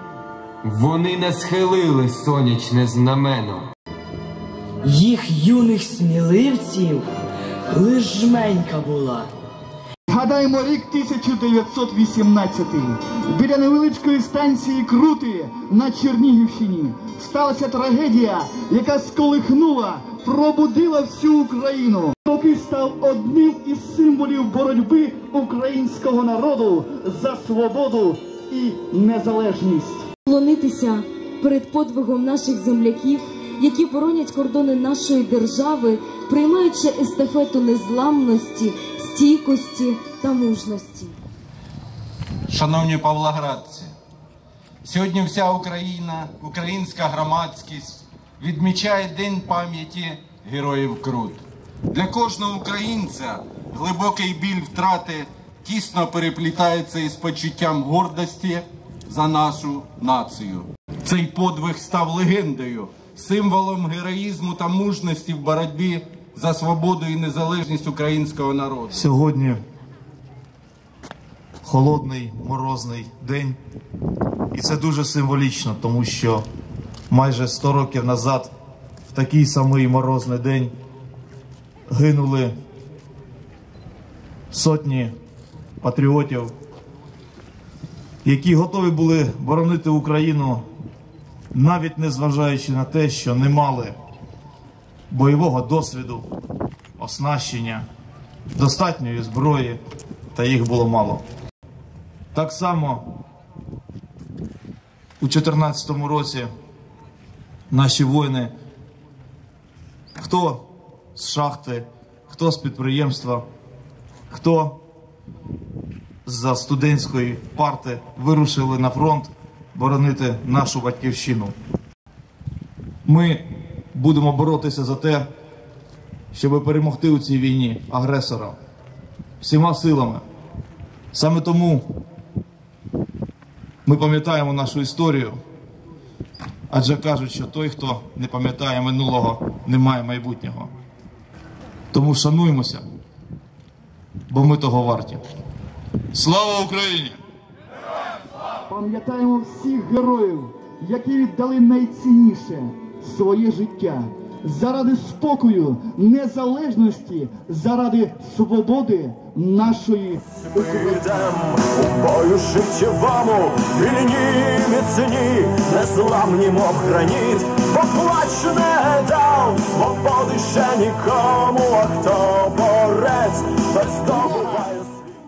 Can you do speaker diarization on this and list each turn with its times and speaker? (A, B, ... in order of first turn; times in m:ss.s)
0:00.6-0:03.7 A
0:04.8-0:07.1 B
0:07.7-0:09.3 B
0:10.1-0:30.1 C
0:30.3-0:41.2 D
0:42.5-0:43.9 E
0:44.8-1:09.0 E
1:08.9-1:09.6 F
1:11.6-1:13.6 F
1:14.5-1:16.4 F
1:17.1-1:18.5 F
1:19.1-1:20.7 F
1:21.9-1:22.5 F
1:24.5-1:25.1 F
1:25.8-1:26.5 F
1:28.2-1:30.6 F
1:31.5-1:34.0 F
1:35.1-1:36.3 F
1:37.0-1:37.9 F
1:38.6-1:39.8 F
1:40.3-1:41.2 F
1:42.3-1:43.1 F
1:45.2-1:46.5 F
1:47.7-1:48.5 F
1:50.2-1:53.4 F
1:54.3-1:54.8 F
1:56.3-2:01.6 F
2:03.0-2:05.3 F
2:06.3-2:08.6 F
2:09.4-2:10.2 F
2:11.1-2:11.9 F
2:13.8-2:15.4 F
2:16.7-2:20.7 F
2:21.9-2:22.8 F
2:24.3-2:25.2 F
2:26.1-2:27.2 F
2:28.7-2:40.4 C
2:40.5-2:55.1 G
2:54.1-2:54.6 C